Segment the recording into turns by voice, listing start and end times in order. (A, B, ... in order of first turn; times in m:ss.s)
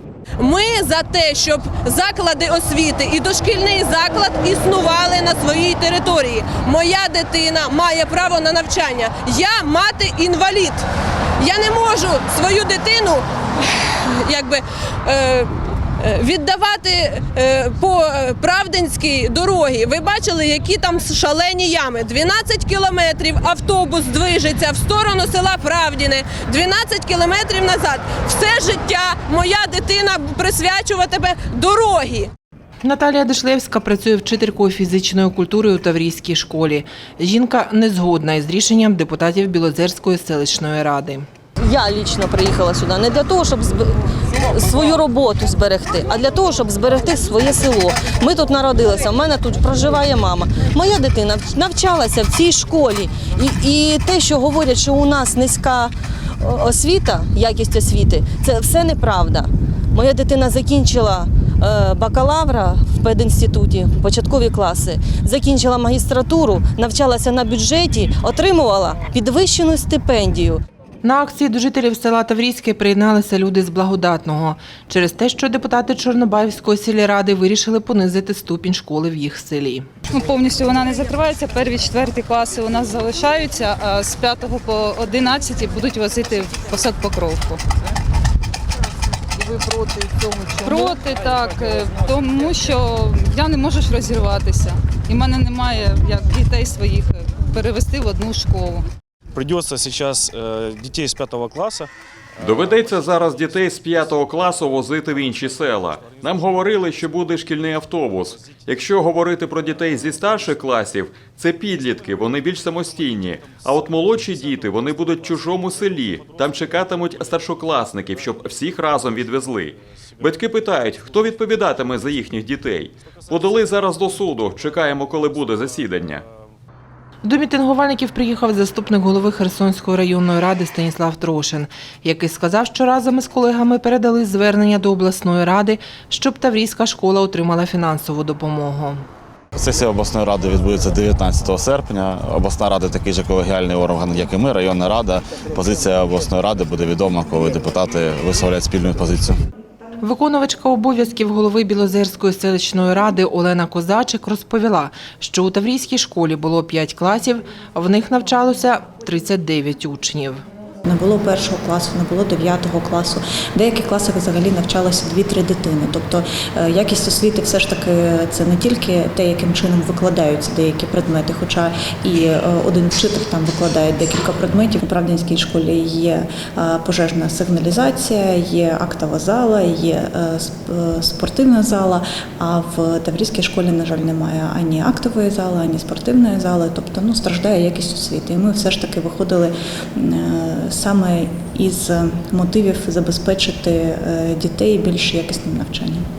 0:00.4-0:10.9 A
0:11.4-0:32.3 A
0:32.8-0:41.2 B
0:41.6-1:10.6 C
1:11.0-1:19.9 B
1:20.1-1:27.6 D
1:30.6-1:38.8 D
1:39.3-1:41.9 E
1:42.4-2:06.2 F
2:07.2-2:19.0 B
2:19.5-2:29.4 G
2:30.0-2:40.4 B
2:40.8-3:16.0 H